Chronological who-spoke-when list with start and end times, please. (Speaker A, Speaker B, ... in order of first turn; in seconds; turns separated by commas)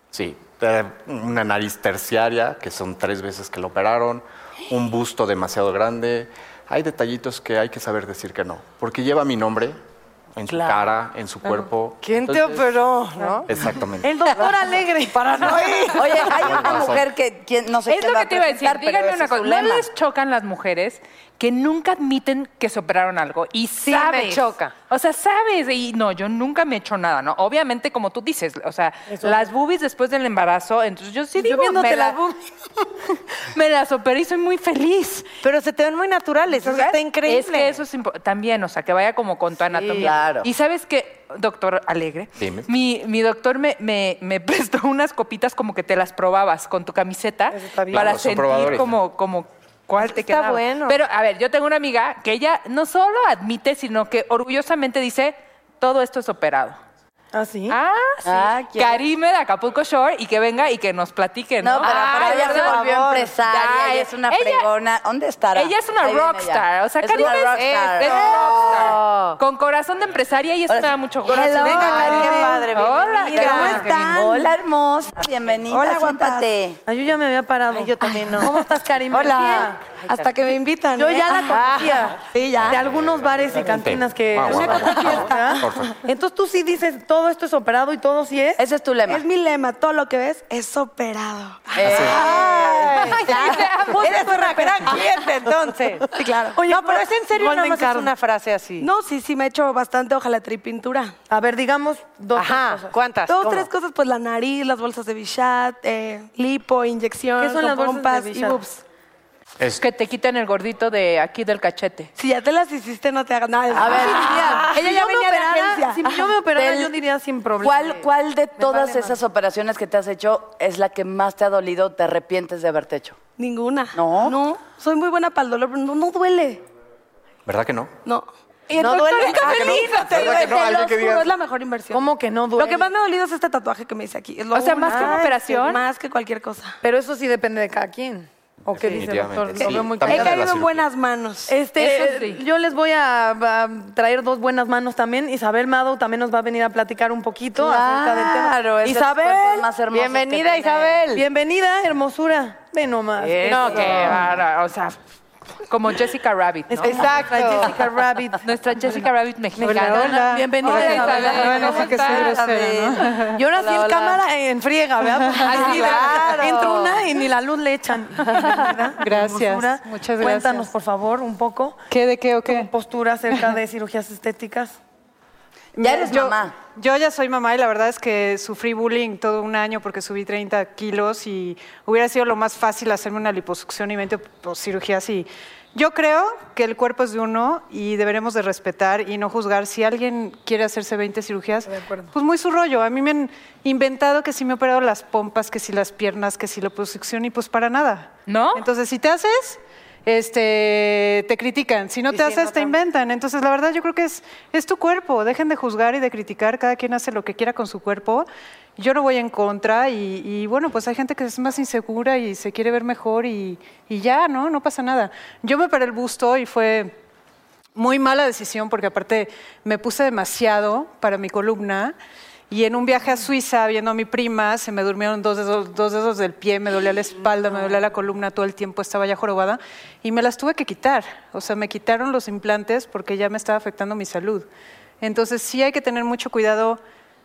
Speaker A: 0.1-9.8, Speaker A: 10.3-12.6, Speaker B: 10.5-10.8, Speaker B: 11.5-13.5, Speaker A: 13.5-14.2, Speaker B: 14.0-16.8, Speaker C: 14.2-15.8, Speaker D: 15.9-19.9, Speaker A: 16.2-17.0, Speaker E: 17.9-32.2, Speaker B: 23.8-24.7, Speaker C: 31.4-31.9, Speaker B: 31.7-32.2, Speaker E: 33.5-35.3, Speaker B: 35.4-37.8, Speaker E: 36.5-56.8, Speaker B: 39.7-40.1, Speaker D: 40.0-40.5, Speaker A: 42.4-42.7, Speaker C: 47.5-48.1, Speaker A: 47.9-49.0, Speaker B: 50.0-51.0, Speaker C: 57.3-57.8, Speaker E: 57.7-64.7, Speaker D: 58.2-59.0, Speaker D: 61.6-69.3, Speaker B: 61.8-63.3, Speaker E: 65.5-73.9, Speaker B: 68.0-69.0, Speaker D: 70.7-72.6, Speaker B: 71.3-74.2, Speaker F: 71.6-72.1, Speaker D: 73.3-76.8, Speaker F: 73.5-74.4, Speaker B: 75.7-76.3, Speaker F: 75.8-76.4, Speaker C: 76.8-79.8, Speaker B: 77.7-80.3, Speaker F: 79.2-81.6, Speaker C: 80.9-88.6, Speaker B: 81.4-82.6, Speaker D: 81.4-81.9, Speaker A: 82.6-86.0, Speaker G: 84.7-85.2, Speaker D: 88.6-89.2, Speaker F: 89.1-95.0, Speaker D: 91.7-93.7, Speaker A: 91.8-92.2, Speaker B: 92.0-96.1, Speaker E: 93.0-94.1, Speaker F: 96.1-96.6, Speaker C: 96.5-98.1, Speaker B: 96.6-98.9, Speaker F: 98.8-101.1, Speaker C: 101.3-103.0, Speaker B: 102.3-103.7, Speaker F: 103.3-108.8, Speaker C: 107.4-108.6, Speaker E: 109.8-112.1, Speaker F: 112.2-116.3, Speaker D: 113.7-114.7, Speaker C: 113.7-118.0, Speaker D: 116.5-116.9, Speaker D: 117.6-123.2, Speaker C: 118.6-119.1, Speaker F: 123.4-126.6, Speaker D: 123.9-124.4, Speaker A: 127.5-127.9, Speaker F: 128.1-136.8, Speaker E: 128.7-130.4, Speaker A: 129.2-131.3, Speaker C: 131.9-132.9, Speaker E: 134.5-135.8, Speaker C: 134.9-135.3, Speaker C: 136.8-140.4, Speaker A: 138.7-140.8, Speaker F: 138.8-142.0, Speaker C: 141.5-149.4, Speaker E: 141.8-142.4, Speaker D: 147.5-151.1, Speaker B: 149.9-151.2, Speaker C: 151.1-154.2, Speaker B: 153.2-154.4, Speaker E: 153.5-155.0, Speaker E: 155.7-157.1, Speaker C: 156.8-158.4, Speaker B: 156.8-157.8, Speaker E: 158.4-162.4, Speaker C: 159.6-162.6, Speaker G: 159.6-163.4, Speaker B: 160.7-162.4, Speaker C: 163.3-171.8, Speaker B: 163.5-164.2, Speaker G: 165.2-165.5, Speaker E: 165.4-166.4, Speaker B: 165.5-167.0, Speaker G: 168.3-170.7, Speaker G: 171.9-172.7, Speaker C: 172.4-174.8, Speaker G: 175.8-216.9, Speaker D: 175.8-176.5, Speaker E: 198.3-198.6, Speaker B: 202.2-202.7, Speaker G: 217.8-221.9, Speaker G: 222.5-234.4, Speaker G: 235.0-236.8